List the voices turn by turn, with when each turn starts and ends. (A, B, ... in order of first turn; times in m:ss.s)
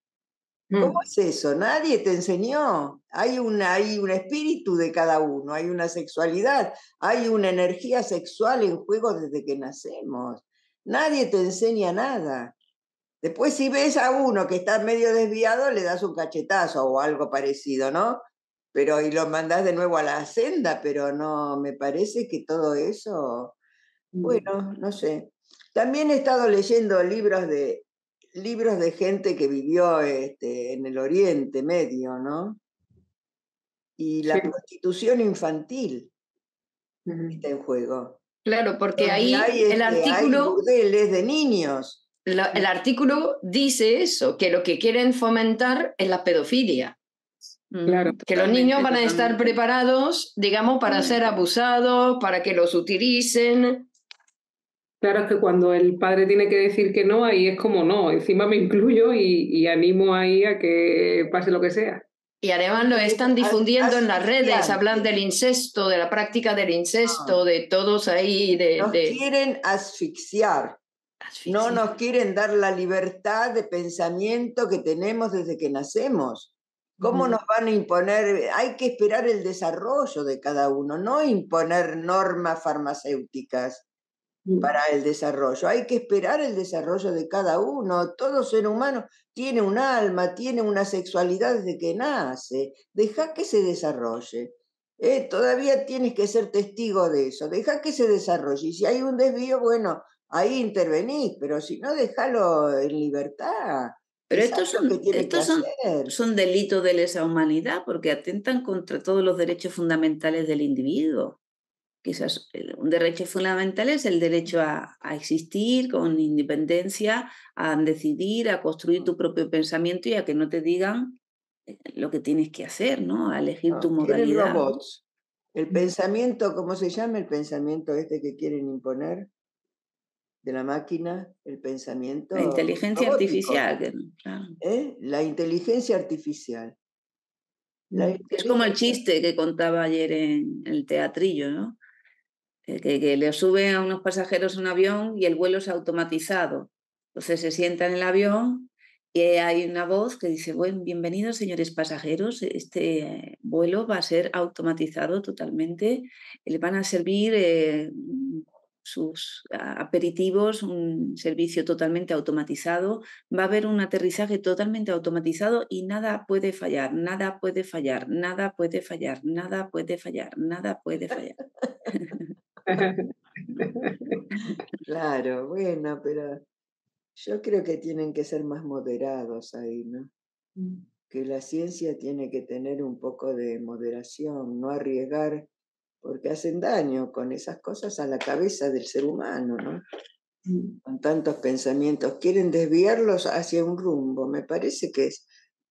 0:00.8-0:12.6 A
0:13.2-0:18.2 A
0:18.7-0:23.6 A
0:24.1-0:24.4 B
0:24.2-0:32.6 A
0:34.0-0:36.1 A
0:37.1-0:37.4 B
0:37.3-0:38.2 A
0:38.4-0:40.6 C
0:39.0-0:42.0 A
0:42.3-0:47.0 C
0:47.7-0:49.6 D
0:47.9-0:48.2 B
0:48.3-0:53.9 C
0:50.9-0:51.2 D
0:55.0-1:02.0 B
1:02.4-1:09.2 C
1:02.7-1:05.1 A
1:07.0-1:07.4 A
1:08.8-1:10.8 A
1:11.2-1:11.8 C
1:11.5-1:23.8 A
1:17.0-1:17.3 B
1:24.6-1:46.2 A
1:44.3-1:51.4 D
1:52.0-2:01.2 D
2:01.7-2:04.7 D
2:03.7-2:05.0 A
2:05.5-2:09.3 A
2:10.4-2:13.6 A
2:12.3-2:14.6 D
2:14.6-2:16.8 A
2:17.9-2:19.0 A
2:18.3-2:21.8 D
2:22.7-2:51.4 D
2:51.9-2:52.2 D
2:52.7-2:54.2 B
2:54.8-2:56.4 A
2:57.2-3:00.1 A
3:00.6-3:00.8 B
3:01.1-3:05.5 A
3:06.0-3:09.8 A
3:10.5-3:10.8 B
3:10.8-3:15.2 A